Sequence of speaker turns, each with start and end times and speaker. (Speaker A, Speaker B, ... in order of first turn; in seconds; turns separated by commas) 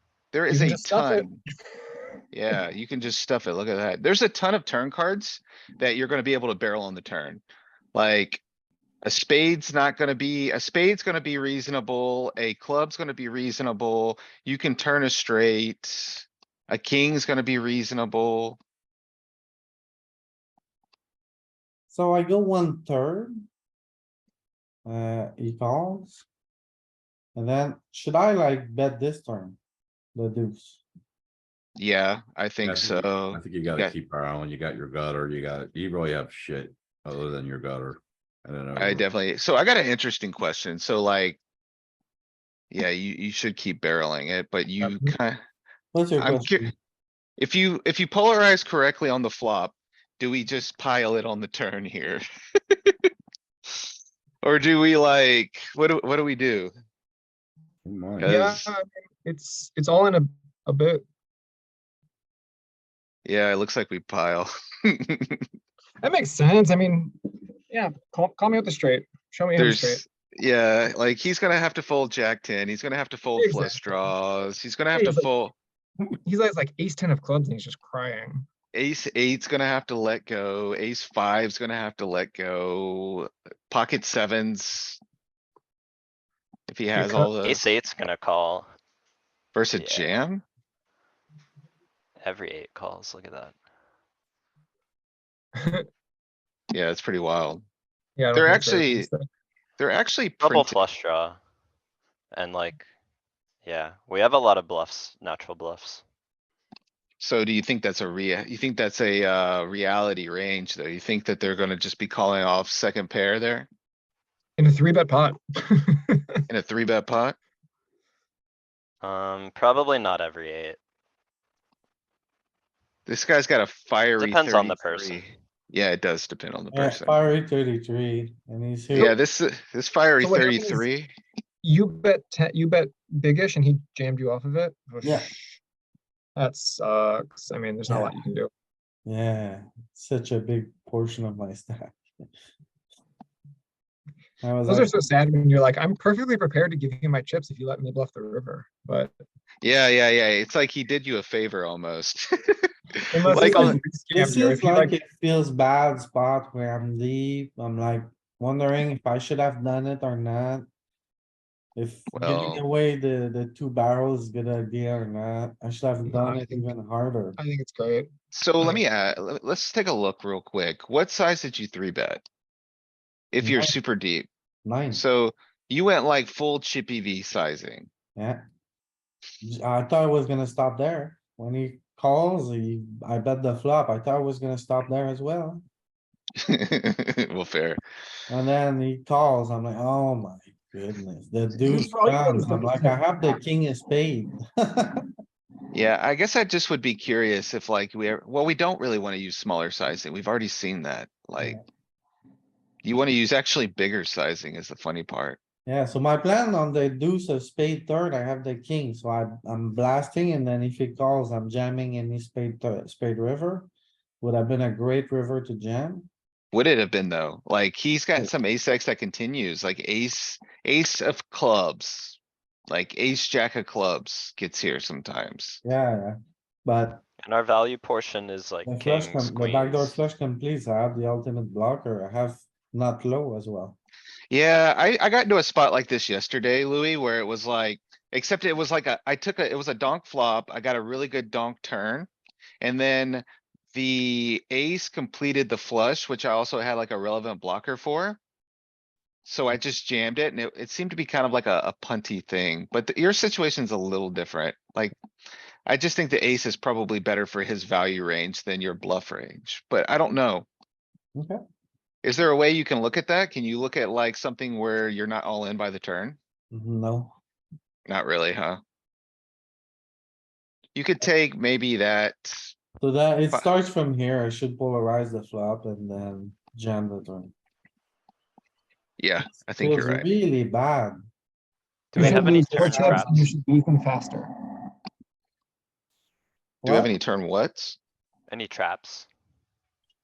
Speaker A: 0.3-1.4, Speaker B: 0.5-1.3, Speaker A: 2.3-7.4, Speaker A: 7.9-8.4, Speaker A: 9.0-18.6, Speaker C: 21.9-23.4, Speaker C: 24.9-26.2, Speaker C: 27.3-29.6, Speaker C: 30.1-30.8, Speaker A: 31.8-33.9, Speaker D: 32.6-39.1, Speaker A: 38.8-41.4, Speaker A: 42.7-45.4, Speaker B: 44.8-45.1, Speaker C: 45.9-46.7, Speaker A: 46.2-46.7, Speaker A: 47.4-52.2, Speaker A: 54.4-56.7, Speaker D: 57.9-58.4, Speaker A: 58.2-58.7, Speaker B: 58.2-61.0, Speaker A: 63.2-65.5, Speaker B: 66.0-70.0, Speaker A: 69.5-75.5, Speaker B: 73.3-74.1, Speaker B: 74.9-75.3, Speaker B: 76.2-78.5, Speaker A: 78.7-85.0, Speaker A: 86.7-87.6, Speaker B: 86.9-87.3, Speaker E: 87.4-88.7, Speaker A: 89.5-90.4, Speaker E: 89.8-90.2, Speaker E: 92.2-93.5, Speaker B: 95.5-95.9, Speaker A: 96.7-97.6, Speaker B: 98.2-99.2, Speaker A: 98.3-99.1, Speaker A: 99.8-100.8, Speaker E: 100.4-101.4, Speaker E: 102.3-102.8, Speaker E: 103.6-106.0, Speaker A: 107.2-113.7, Speaker B: 114.6-116.3, Speaker A: 116.5-117.3, Speaker E: 119.0-120.8, Speaker A: 123.1-127.2, Speaker E: 124.2-125.3, Speaker C: 126.7-129.1, Speaker A: 128.9-131.1, Speaker B: 130.2-130.9, Speaker B: 131.6-135.6, Speaker C: 135.0-135.3, Speaker B: 136.3-138.5, Speaker C: 137.9-138.2, Speaker C: 139.1-142.2, Speaker C: 144.4-144.9, Speaker B: 144.7-149.2, Speaker A: 149.6-153.8, Speaker B: 153.1-154.9, Speaker C: 153.3-160.7, Speaker C: 161.8-167.4, Speaker A: 162.1-162.6, Speaker B: 166.1-166.7, Speaker B: 167.4-168.8, Speaker A: 168.3-172.2, Speaker A: 173.3-174.3, Speaker B: 173.4-173.7, Speaker C: 174.6-175.0, Speaker A: 174.9-177.9, Speaker C: 178.2-178.4, Speaker C: 179.4-185.6, Speaker A: 186.4-187.8, Speaker C: 188.3-195.1, Speaker B: 191.5-193.3, Speaker A: 195.7-201.6, Speaker A: 202.8-205.4, Speaker C: 205.7-213.7, Speaker C: 214.2-216.1, Speaker A: 216.5-225.6, Speaker C: 225.6-227.0, Speaker E: 227.2-229.9, Speaker C: 228.7-233.8, Speaker A: 234.3-242.1, Speaker A: 242.6-248.2, Speaker A: 249.2-255.0, Speaker A: 255.7-260.5, Speaker A: 262.0-266.2, Speaker C: 266.5-267.1, Speaker A: 267.9-268.6, Speaker A: 270.7-272.5, Speaker C: 272.8-277.3, Speaker A: 279.0-280.1, Speaker C: 279.5-281.1, Speaker E: 281.9-283.3, Speaker B: 281.9-284.3, Speaker C: 282.0-283.1, Speaker C: 286.6-286.9, Speaker A: 286.6-287.8, Speaker E: 288.3-289.1